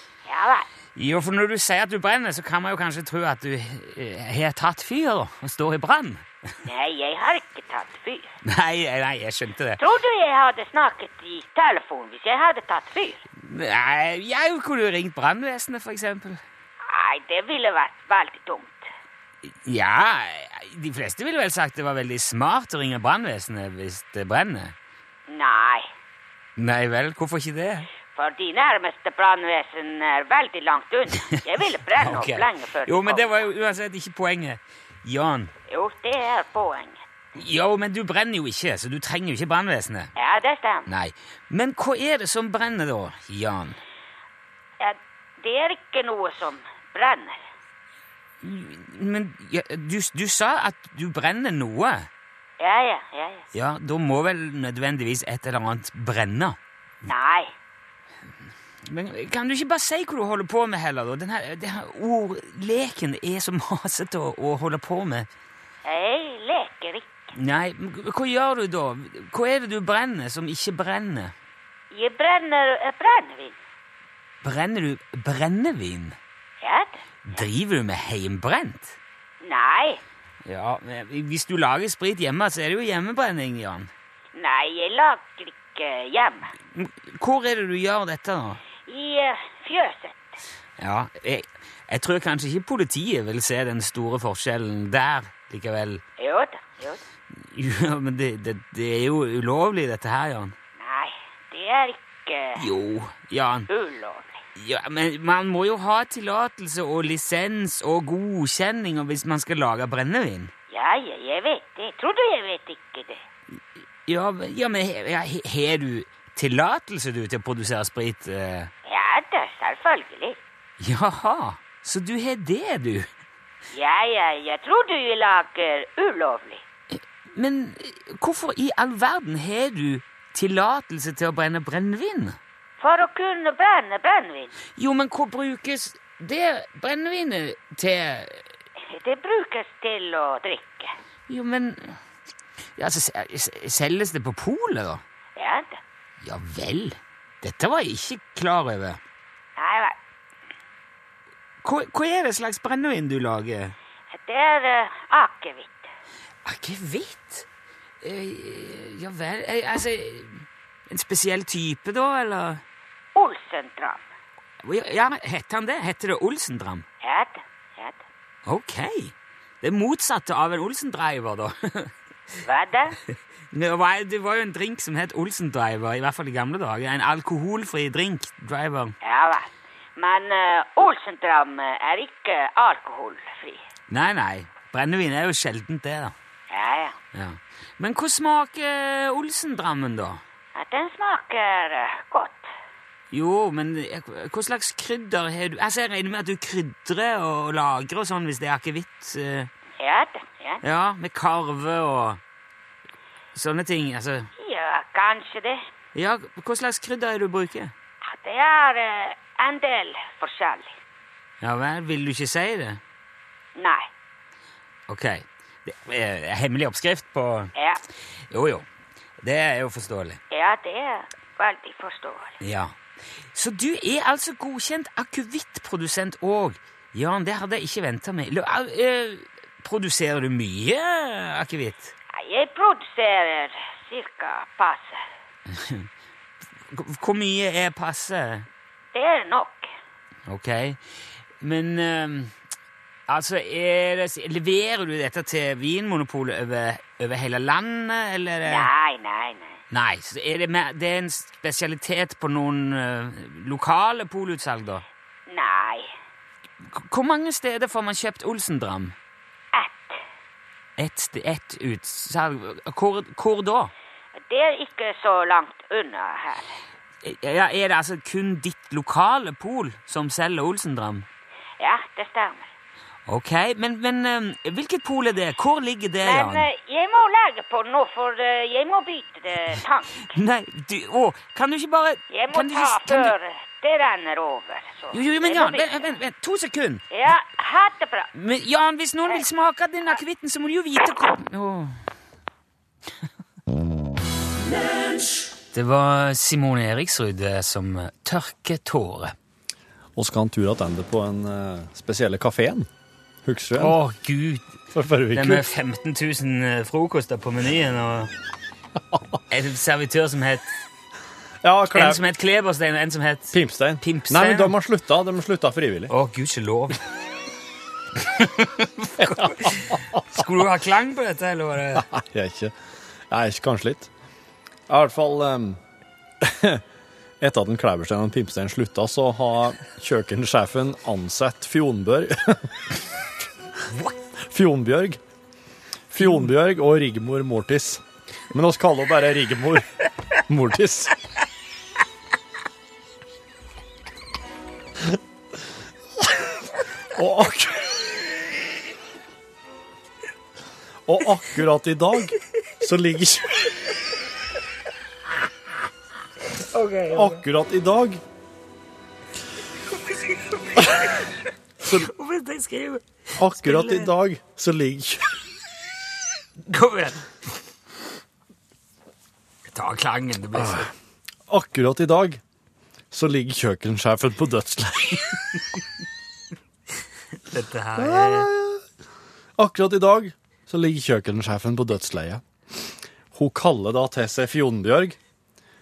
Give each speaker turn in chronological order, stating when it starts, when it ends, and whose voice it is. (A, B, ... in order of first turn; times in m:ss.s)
0:00.3-0:00.7 A
0:01.0-0:06.3 B
0:06.6-0:08.4 A
0:08.4-0:09.8 B
0:09.8-0:13.2 A
0:13.4-0:16.4 B
0:16.9-0:18.9 A
0:19.5-0:24.8 B
0:25.3-0:25.9 A
0:26.6-0:27.9 B
0:28.1-0:33.5 A
0:32.0-0:35.5 B
0:35.7-0:37.0 A
0:37.4-0:40.1 B
0:40.2-0:40.9 A
0:40.9-0:43.8 B
0:44.8-0:47.4 A
0:48.4-0:52.1 B
0:52.6-0:53.4 A
0:53.5-0:56.6 B
0:57.1-0:57.5 A
0:58.9-1:05.3 B
1:05.8-1:07.3 A
1:07.4-1:11.3 B
1:11.9-1:13.6 A
1:14.4-1:16.2 B
1:16.6-1:17.4 A
1:17.3-1:19.0 B
1:19.4-1:20.0 A
1:20.4-1:23.9 B
1:24.4-1:26.5 A
1:26.7-1:28.6 B
1:28.9-1:30.4 A
1:30.8-1:36.0 B
1:36.2-1:37.0 A
1:37.3-1:40.6 B
1:40.8-1:42.6 A
1:42.6-1:43.7 B
1:43.7-1:44.4 A
1:44.6-1:50.5 B
1:50.7-1:53.2 A
1:53.6-1:58.7 B
1:58.9-2:00.4 A
2:00.8-2:03.1 B
2:03.7-2:06.6 A
2:06.9-2:12.4 B
2:12.8-2:14.5 A
2:14.8-2:18.4 B
2:18.9-2:20.9 A
2:21.3-2:22.0 B
2:22.8-2:25.0 B
2:25.4-2:25.8 A
2:26.2-2:29.0 B
2:29.6-2:30.0 A
2:31.6-2:33.8 B
2:34.1-2:35.9 A
2:36.4-2:37.5 B
2:38.0-2:42.6 B
2:43.2-2:44.0 A
2:44.6-2:46.8 B
2:47.0-2:48.0 A
2:48.5-2:51.9 B
2:52.4-2:53.0 A
2:53.5-2:58.9 B
2:59.0-3:03.6 A
3:03.9-3:06.1 B
3:06.5-3:07.0 A
3:07.1-3:10.2 B
3:10.6-3:12.5 A
3:13.1-3:19.5 B
3:19.8-3:20.6 A
3:20.6-3:22.2 B
3:23.3-3:24.3 B
3:24.4-3:25.6 A
3:25.9-3:27.7 B
3:28.1-3:30.8 A
3:31.4-3:32.8 B
3:33.6-3:33.9 A
3:34.9-3:37.5 B
3:37.6-3:37.8 A
3:38.3-3:38.6 B
3:39.2-3:40.2 B
3:40.3-3:42.4 A
3:42.4-3:42.7 B
3:43.3-3:51.9 B
3:52.1-3:55.0 A
3:55.5-3:55.9 B
3:56.7-3:58.5 B
3:58.9-3:59.7 A
4:00.3-4:00.8 B
4:01.4-4:02.4 B
4:03.1-4:08.7 B
4:08.5-4:09.6 A
4:09.7-4:14.8 B
4:15.3-4:15.9 A
4:16.6-4:19.0 B
4:19.5-4:20.0 A
4:20.8-4:23.7 B
4:24.2-4:26.6 A
4:27.0-4:31.1 B
4:31.6-4:32.5 A
4:33.1-4:36.5 B
4:36.0-4:40.1 A
4:40.1-4:43.1 B
4:42.1-4:46.0 A
4:44.9-4:46.8 B
4:46.9-4:48.1 A
4:48.1-4:51.8 B
4:55.5-4:59.1 B
5:00.0-5:02.7 C
5:03.2-5:03.8 C
5:03.6-5:04.6 B
5:04.7-5:05.5 C
5:05.1-5:08.1 B
5:09.3-5:10.5 B
5:11.4-5:12.0 C
5:11.7-5:14.5 B
5:13.3-5:15.9 C
5:15.9-5:16.8 B
5:18.0-5:21.9 B
5:19.0-5:20.0 C
5:21.8-5:22.6 C
5:23.1-5:23.9 C
5:24.7-5:25.6 C
5:26.2-5:26.6 C
5:27.2-5:32.5 C
5:34.2-5:35.0 C
5:35.9-5:39.7 C
5:40.3-5:41.0 C
5:46.9-5:47.9 C
5:50.9-5:53.5 C
5:56.5-5:57.2 B
5:56.9-5:58.0 C
6:00.5-6:01.1 B
6:01.6-6:03.9 B
6:03.2-6:05.0 C
6:06.4-6:07.0 B
6:09.5-6:10.7 B
6:10.3-6:10.7 C
6:11.3-6:12.2 C
6:12.9-6:15.2 C
6:17.3-6:18.3 B
6:17.8-6:18.6 C
6:19.4-6:25.0 C